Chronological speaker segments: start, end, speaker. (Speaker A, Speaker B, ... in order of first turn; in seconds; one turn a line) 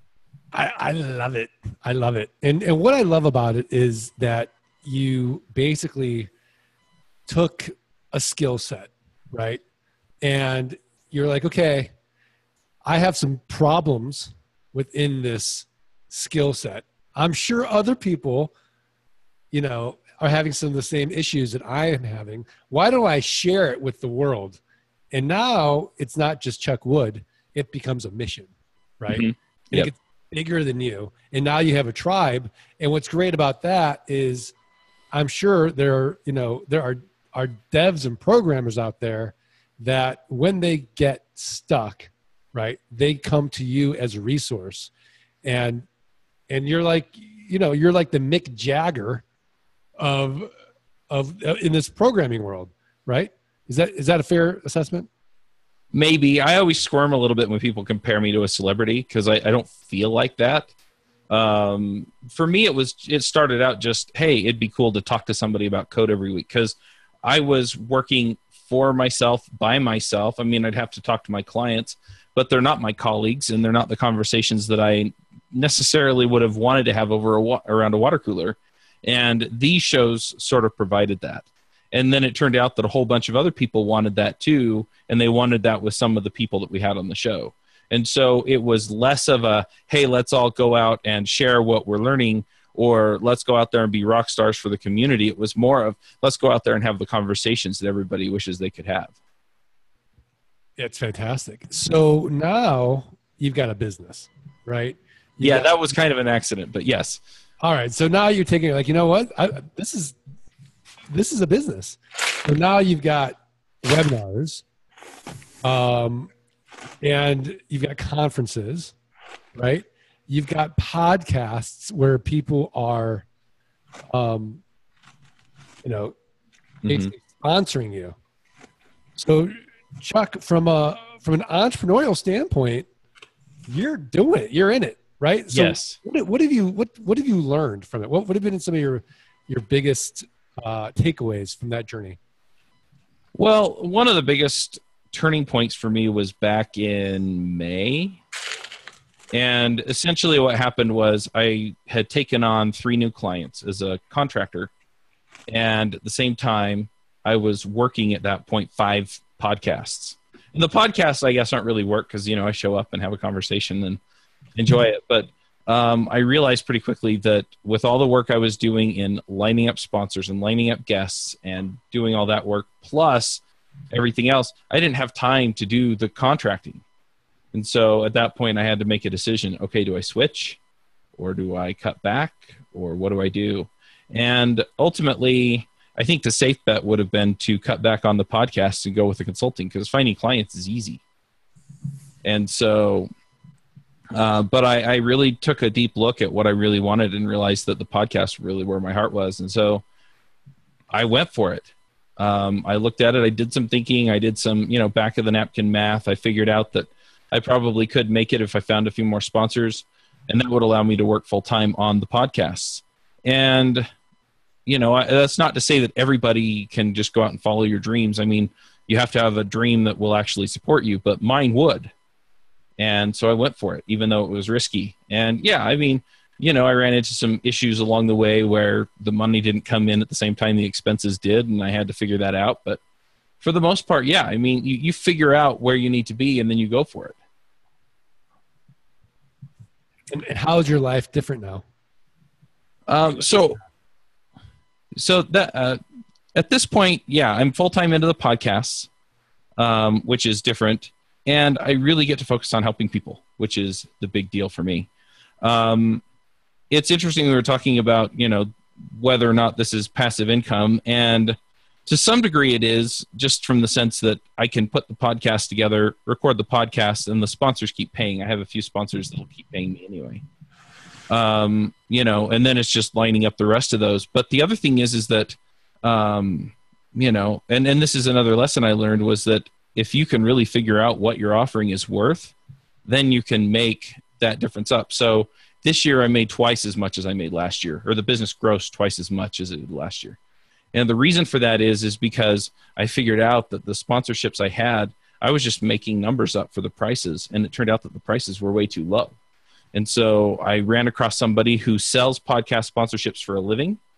Speaker A: 0.5-6.3
Speaker A: 7.3-9.6
Speaker A: 10.2-11.9
Speaker A: 12.8-18.5
Speaker A: 19.5-24.6
Speaker A: 25.1-34.5
Speaker B: 29.1-29.9
Speaker A: 35.1-44.9
Speaker A: 45.4-45.9
Speaker A: 46.5-49.2
Speaker A: 50.0-50.5
Speaker A: 51.1-55.1
Speaker B: 55.9-60.7
Speaker B: 61.3-99.1
Speaker A: 100.8-105.7
Speaker B: 105.4-107.2
Speaker A: 107.6-110.2
Speaker A: 111.1-114.6
Speaker A: 115.6-116.3
Speaker A: 117.0-118.9
Speaker A: 119.5-123.3
Speaker A: 124.1-124.6
Speaker A: 125.8-126.2
Speaker B: 126.8-127.1
Speaker A: 126.8-128.2
Speaker A: 129.2-132.9
Speaker A: 133.7-142.2
Speaker B: 135.5-136.0
Speaker B: 143.3-148.2
Speaker B: 149.3-154.7
Speaker B: 155.5-164.0
Speaker B: 164.6-176.8
Speaker B: 177.5-180.6
Speaker B: 181.2-191.0
Speaker B: 192.2-193.1
Speaker B: 194.1-199.8
Speaker B: 200.9-213.9
Speaker B: 214.7-221.9
Speaker B: 222.8-232.8
Speaker B: 233.4-237.1
Speaker A: 240.1-241.6
Speaker B: 242.9-243.6
Speaker B: 244.9-245.8
Speaker B: 246.3-248.9
Speaker B: 249.6-254.9
Speaker B: 255.4-256.0
Speaker B: 256.7-270.2
Speaker B: 271.1-282.3
Speaker B: 282.9-290.2
Speaker B: 290.7-299.1
Speaker B: 299.7-303.8